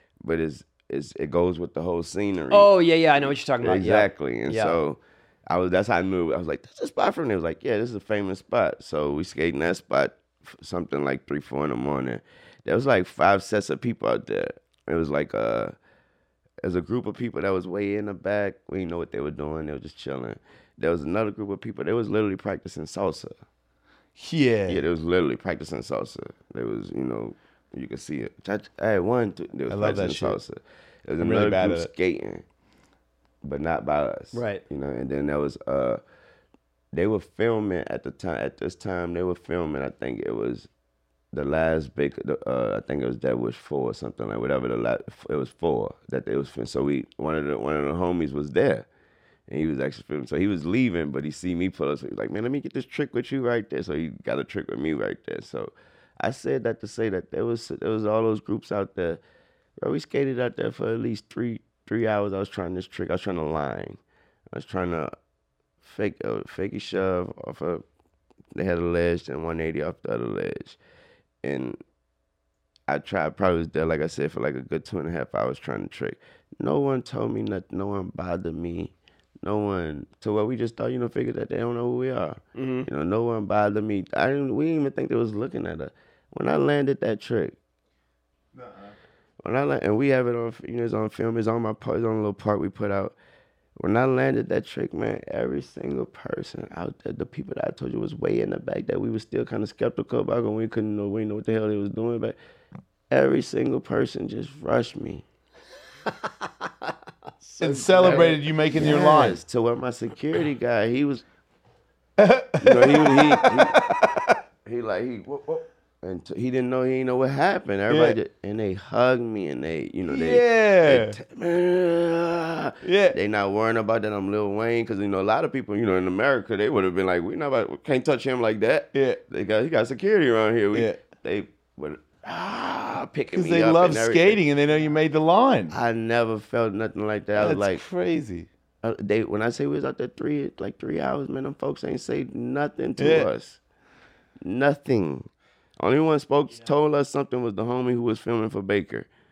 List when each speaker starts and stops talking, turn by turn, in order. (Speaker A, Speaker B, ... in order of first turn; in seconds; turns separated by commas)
Speaker A: 0.2-2.7, Speaker B: 2.5-4.8, Speaker A: 3.2-15.7, Speaker A: 16.6-23.3, Speaker C: 24.2-24.8, Speaker A: 24.7-32.4, Speaker C: 29.7-30.4, Speaker C: 31.2-31.9, Speaker A: 33.4-36.0, Speaker B: 34.3-34.6, Speaker A: 36.9-40.7, Speaker A: 41.3-48.9, Speaker A: 49.5-59.2, Speaker A: 59.8-64.0, Speaker A: 64.5-65.1, Speaker A: 65.8-67.8, Speaker A: 68.5-70.8, Speaker A: 71.4-71.8, Speaker A: 72.9-87.6, Speaker B: 82.5-82.9, Speaker C: 88.5-88.9, Speaker A: 89.4-93.2, Speaker A: 93.8-102.4, Speaker A: 103.1-105.2, Speaker B: 106.0-108.4, Speaker C: 107.6-109.4, Speaker A: 107.9-111.2, Speaker C: 112.2-114.3, Speaker A: 112.6-134.4, Speaker C: 117.9-118.2, Speaker C: 120.1-121.2, Speaker C: 122.8-123.2, Speaker C: 128.9-129.2, Speaker C: 130.7-131.0, Speaker C: 133.3-135.8, Speaker A: 135.7-137.8, Speaker C: 137.4-138.5, Speaker A: 138.8-143.6, Speaker C: 143.0-143.3, Speaker A: 144.4-145.3, Speaker A: 145.8-149.1